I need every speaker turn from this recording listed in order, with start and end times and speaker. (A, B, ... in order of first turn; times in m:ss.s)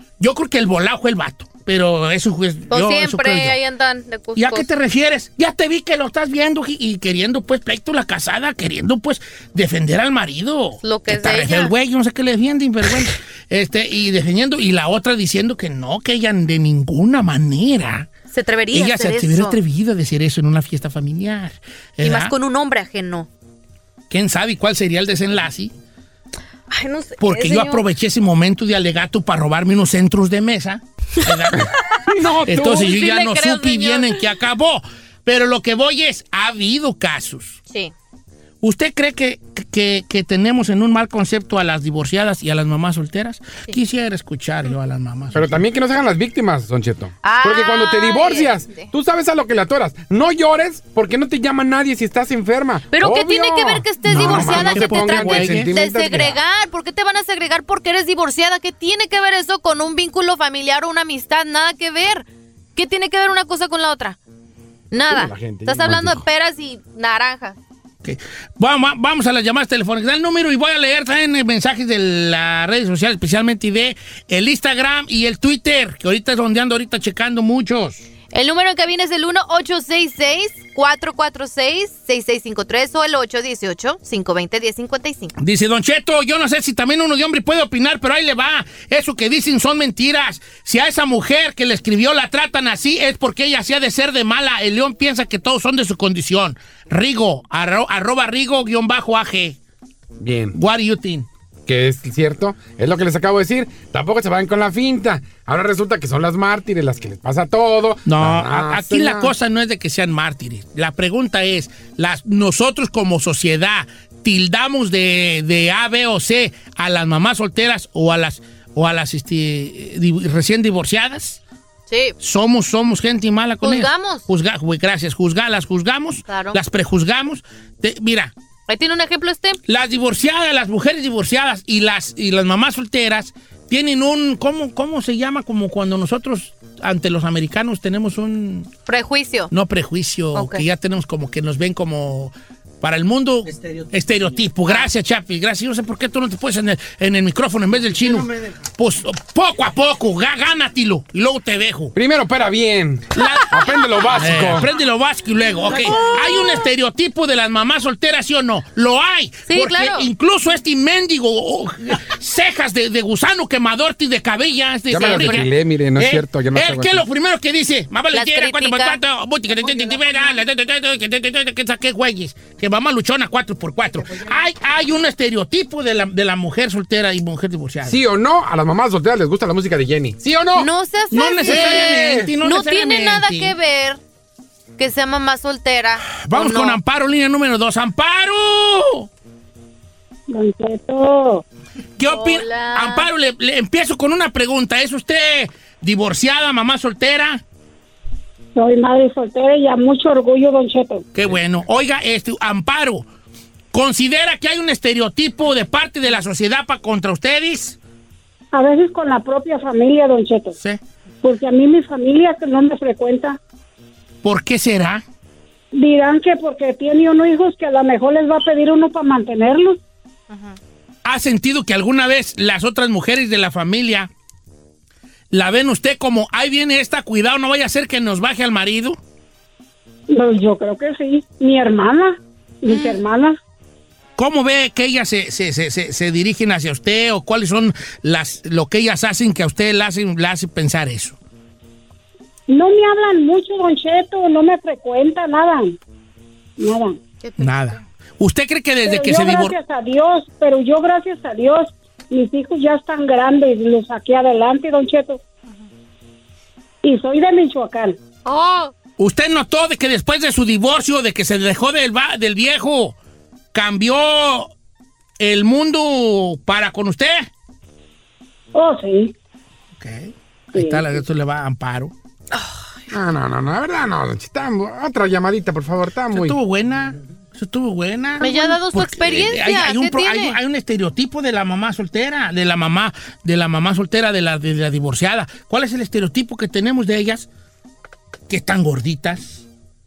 0:00.2-0:03.6 A
0:02.7-0:04.7 B
0:04.4-0:18.1 A
0:10.8-0:11.7 B
0:18.3-0:19.6 B
0:18.7-0:22.3 A
0:22.0-0:23.3 B
0:24.1-0:25.7 A
0:26.7-0:27.8 B
0:27.2-0:31.7 A
0:32.0-0:32.9 C
0:32.5-0:37.6 A
0:32.5-0:34.2 B
0:38.6-0:45.5 A
0:45.3-0:56.4 C
0:47.2-0:48.9 B
0:52.9-1:04.2 B
0:54.0-0:55.7 A
1:04.9-1:07.6 B
1:05.1-1:06.2 C
1:08.0-1:18.0 A
1:18.3-1:25.3 B
1:25.4-1:39.6 A
1:40.2-1:40.6 C
1:40.5-1:41.3 A
1:41.7-1:49.3 C
1:48.0-2:01.4 A
2:01.9-2:02.2 B
2:02.2-2:08.3 A
2:03.6-2:04.2 B
2:06.3-2:06.6 B
2:08.7-2:09.6 B
2:09.7-2:18.7 A
2:18.9-2:19.5 B
2:19.5-2:32.0 A
2:20.4-2:20.6 B
2:32.0-2:34.7 C
2:33.2-2:33.6 A
2:33.4-2:33.8 B
2:34.1-2:58.0 A
2:35.7-2:36.7 B
2:39.5-2:40.1 B
2:44.9-2:47.0 C
2:45.0-2:45.4 B
2:48.1-2:49.0 B
2:49.8-2:50.4 B
2:57.8-3:00.7 C
3:00.6-3:04.0 B
3:01.1-3:03.5 A
3:01.4-3:02.3 C
3:04.8-3:06.8 B
3:06.2-3:09.1 A
3:10.3-3:11.4 D
3:12.0-3:17.4 A
3:12.1-3:13.1 B
3:18.6-3:21.1 D
3:21.2-3:23.1 A
3:23.7-3:27.8 A
3:28.5-3:30.6 D
3:31.2-3:33.4 D
3:34.2-3:35.0 A
3:35.7-3:39.8 D
3:40.3-3:40.6 B
3:41.0-3:44.1 A
3:45.3-3:49.0 A
3:50.1-3:53.4 D
3:52.7-3:53.0 B
3:54.2-4:01.2 A
4:02.5-4:05.8 D
4:06.6-4:07.0 D
4:07.2-4:07.8 B
4:07.4-4:09.6 A
4:08.8-4:15.2 D
4:16.8-4:18.0 D
4:18.2-4:18.7 B
4:19.0-4:23.0 A
4:23.5-4:24.5 A
4:25.2-4:27.3 A
4:28.5-4:29.1 D
4:29.8-4:31.9 A
4:30.5-4:30.8 D
4:32.3-4:32.7 B
4:32.9-4:36.4 C
4:36.1-4:47.3 A
4:38.2-4:40.4 B
4:48.3-4:49.4 A